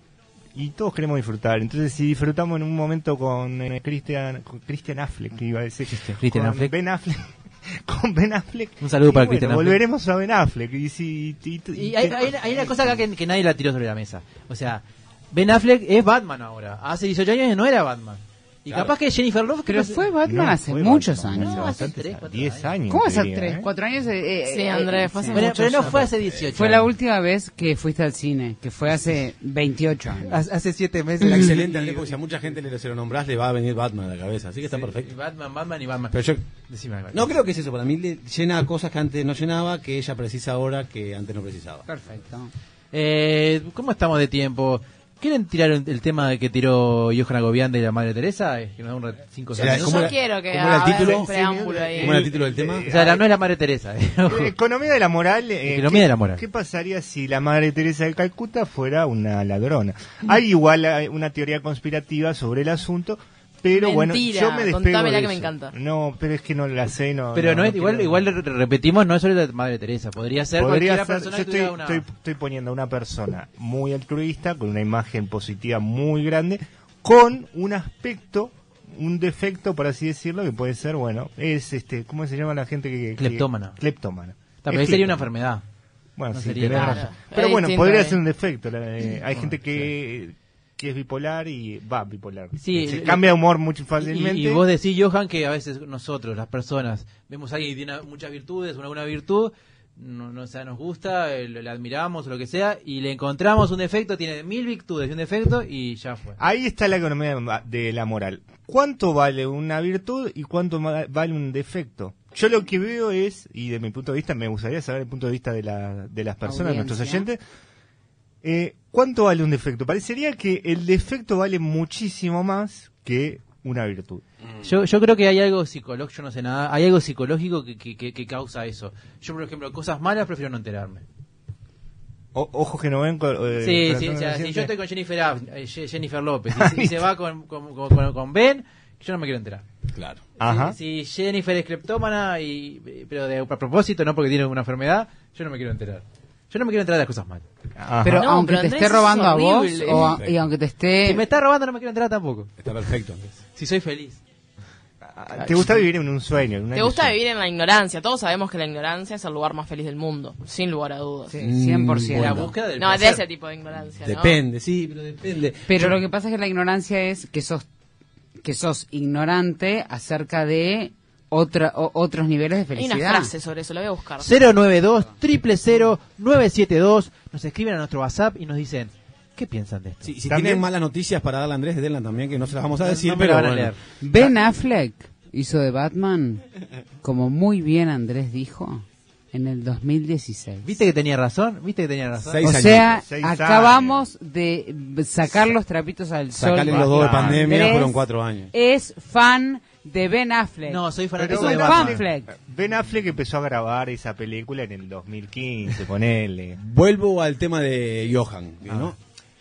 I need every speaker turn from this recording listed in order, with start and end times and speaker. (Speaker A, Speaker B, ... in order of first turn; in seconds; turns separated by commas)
Speaker A: 0.6-12.5, Speaker B: 5.9-6.7, Speaker B: 8.8-9.8, Speaker B: 11.8-20.1, Speaker C: 19.7-21.7, Speaker A: 20.2-23.7, Speaker B: 21.3-22.7, Speaker C: 22.9-25.6, Speaker D: 24.5-26.1, Speaker B: 25.3-26.9, Speaker E: 25.8-26.5, Speaker C: 26.5-30.4, Speaker B: 30.3-32.1, Speaker E: 31.2-35.1, Speaker B: 34.7-37.4, Speaker E: 36.1-36.4, Speaker E: 37.1-41.8, Speaker C: 41.9-42.5, Speaker B: 42.9-50.1, Speaker E: 49.5-51.3, Speaker D: 49.6-52.2, Speaker A: 50.9-53.2, Speaker E: 51.9-52.9, Speaker B: 52.9-54.5, Speaker A: 54.3-68.2, Speaker B: 55.7-56.4, Speaker D: 63.7-65.8, Speaker B: 67.3-72.0, Speaker A: 70.6-85.3, Speaker B: 83.2-83.8, Speaker B: 84.6-85.6, Speaker A: 86.2-94.6, Speaker B: 86.3-87.0, Speaker D: 86.7-88.2, Speaker B: 89.3-89.9, Speaker B: 92.6-93.4, Speaker B: 94.0-106.4, Speaker A: 106.4-117.4, Speaker C: 116.5-117.3, Speaker A: 118.4-124.2, Speaker B: 124.6-131.0, Speaker A: 132.3-134.7, Speaker B: 133.6-139.7, Speaker A: 136.5-137.1, Speaker E: 139.9-140.3, Speaker A: 140.4-140.8, Speaker B: 140.4-147.4, Speaker A: 147.8-148.3, Speaker C: 148.0-151.2, Speaker D: 148.1-150.2, Speaker E: 150.0-150.4, Speaker B: 151.0-152.5, Speaker E: 152.6-153.4, Speaker B: 153.5-154.2, Speaker A: 155.0-157.2, Speaker D: 156.7-161.4, Speaker C: 161.3-162.5, Speaker E: 161.4-162.6, Speaker B: 162.1-163.2, Speaker D: 162.8-164.4, Speaker E: 164.0-165.9, Speaker C: 165.7-167.7, Speaker C: 168.4-173.3, Speaker D: 172.8-174.3, Speaker B: 174.2-180.1, Speaker E: 180.0-183.7, Speaker A: 180.3-180.7, Speaker B: 182.8-183.8, Speaker C: 184.0-186.4, Speaker C: 187.0-190.7, Speaker B: 190.7-192.4, Speaker E: 192.2-193.0, Speaker C: 192.4-202.3, Speaker A: 192.9-194.1, Speaker E: 196.3-198.5, Speaker A: 196.9-197.4, Speaker B: 200.7-202.0, Speaker A: 201.2-206.6, Speaker E: 206.6-209.0